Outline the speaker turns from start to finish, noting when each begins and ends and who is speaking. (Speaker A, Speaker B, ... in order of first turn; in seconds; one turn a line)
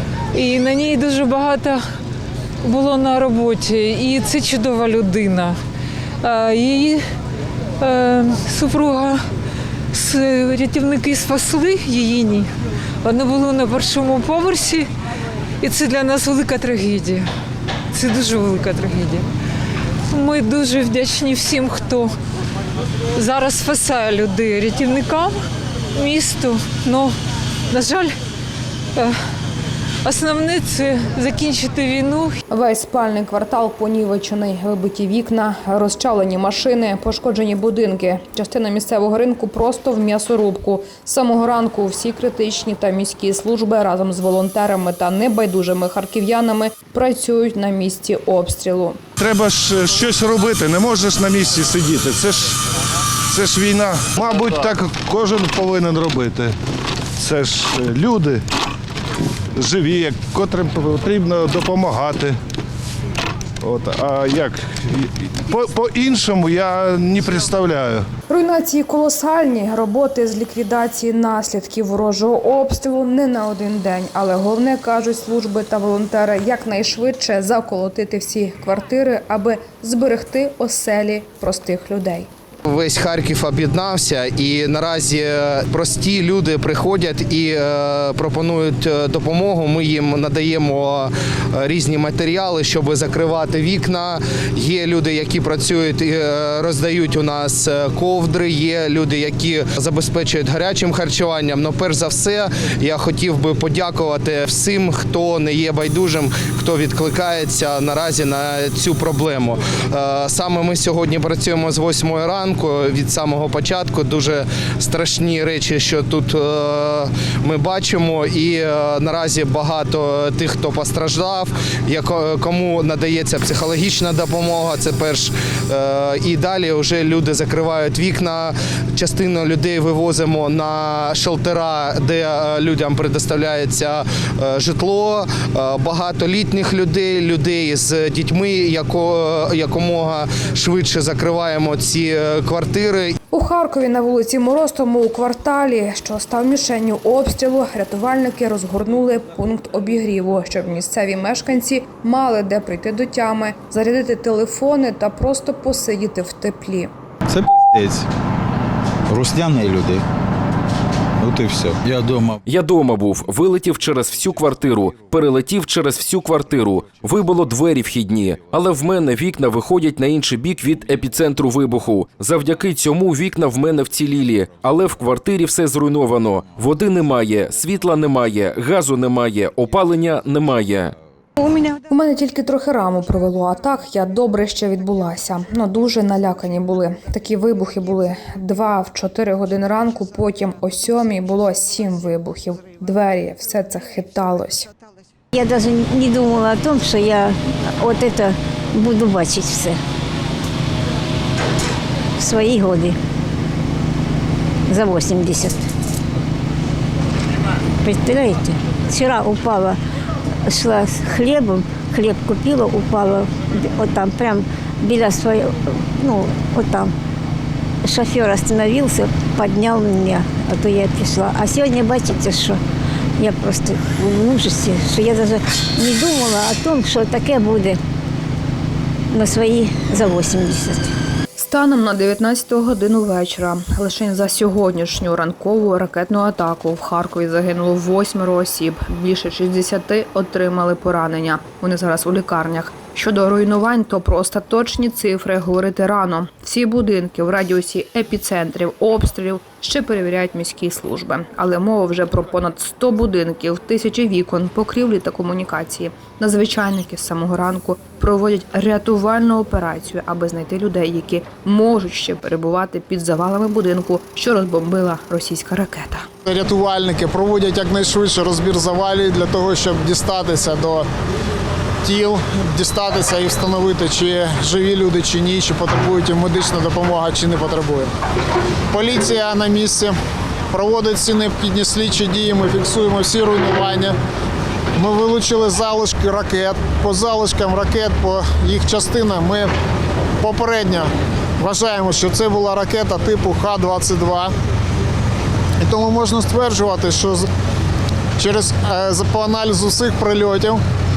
Speaker A: 0.3-1.8
Speaker A: 2.6-5.6
Speaker A: 6.2-7.0
Speaker A: 7.8-9.2
Speaker A: 9.9-12.5
Speaker A: 13.0-14.9
Speaker A: 15.6-17.3
Speaker A: 17.9-19.3
Speaker A: 20.1-22.1
Speaker A: 23.1-25.4
Speaker A: 25.9-27.2
Speaker A: 27.7-28.1
Speaker A: 30.0-32.4
Speaker B: 32.5-49.0
Speaker C: 49.2-52.5
Speaker C: 53.3-56.5
Speaker C: 57.2-58.4
Speaker C: 59.6-62.4
Speaker C: 63.6-68.1
Speaker B: 68.3-82.3
Speaker D: 82.7-143.2
Speaker B: 143.3-156.9
Speaker E: 157.3-158.1
Speaker E: 159.1-160.0
Speaker E: 161.2-162.4
Speaker F: 162.4-180.9
Speaker B: 181.6-194.7
Speaker G: 195.3-199.8
Speaker G: 202.2-203.0
Speaker G: 204.7-205.7
Speaker G: 207.8-209.8
Speaker G: 210.5-216.9
Speaker G: 217.8-222.6
Speaker G: 223.2-227.8
Speaker G: 229.1-230.9
Speaker B: 231.4-266.1
Speaker H: 266.2-270.9
Speaker H: 271.8-277.9
Speaker H: 278.7-279.9
Speaker H: 280.5-284.0
Speaker H: 284.8-289.5
Speaker H: 290.2-294.3
Speaker H: 295.6-297.3
Speaker H: 298.2-300.6